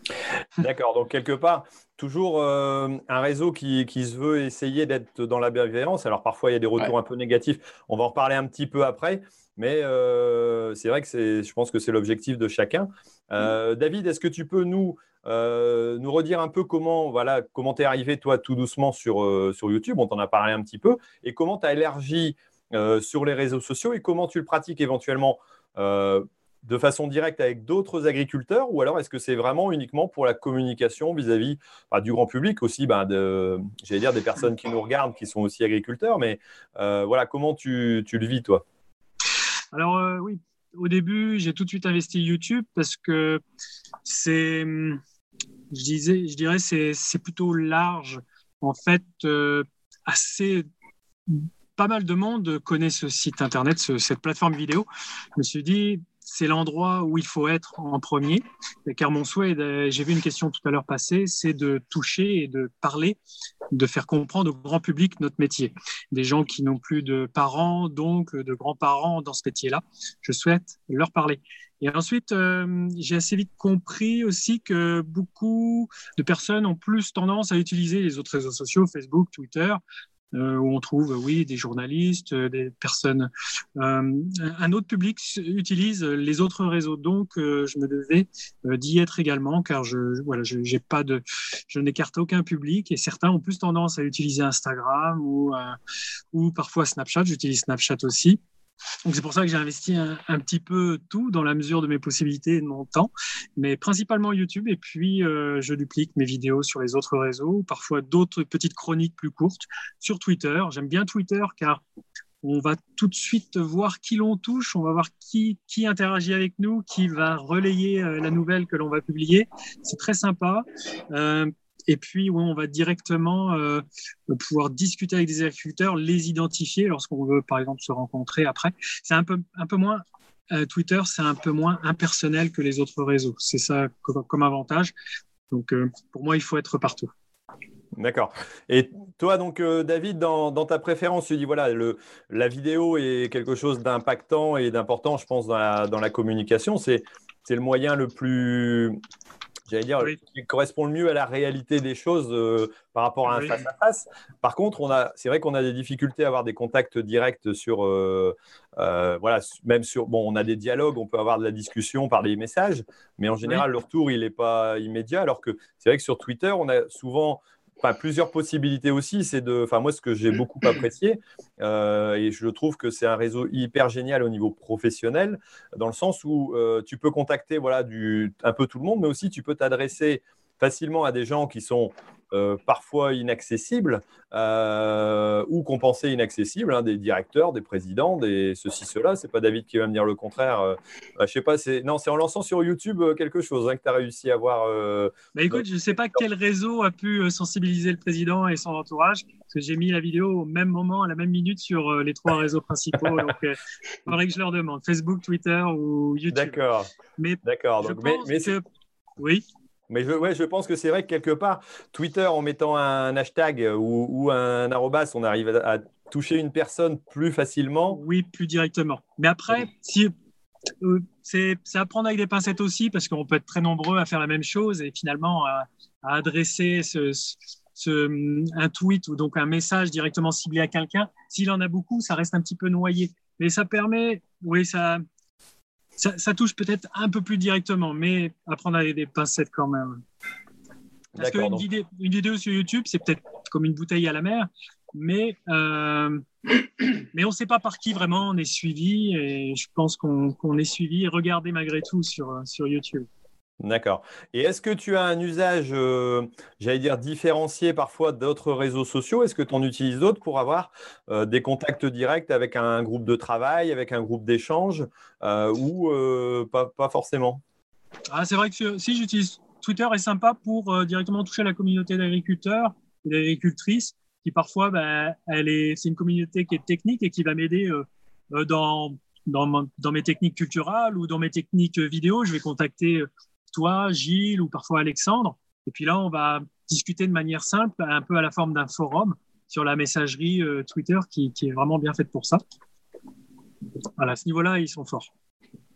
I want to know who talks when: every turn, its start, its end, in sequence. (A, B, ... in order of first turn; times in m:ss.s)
0:00.6-0:38.6 A
0:39.7-0:43.4 B
0:44.0-0:45.0 B
0:45.7-0:50.7 B
0:51.3-1:03.2 B
1:03.7-1:19.8 B
1:20.3-1:35.8 B
1:36.3-1:38.4 B
1:39.0-1:51.8 B
1:52.4-2:14.9 B
2:15.5-2:17.1 B
2:18.0-2:29.0 A
2:29.7-3:16.2 A
2:33.3-2:33.5 B
3:15.4-3:26.6 B
3:26.3-3:26.9 A
3:27.2-3:28.6 B
3:27.4-3:28.5 A
3:29.2-3:29.4 B
3:29.9-3:38.0 A
3:37.9-3:40.1 B
3:40.8-3:55.0 B
3:56.0-4:00.0 B
4:01.1-4:01.6 A
4:01.2-4:06.2 B
4:07.0-4:13.1 B
4:13.6-4:27.4 A
4:28.1-4:52.4 B
4:54.0-4:55.1 B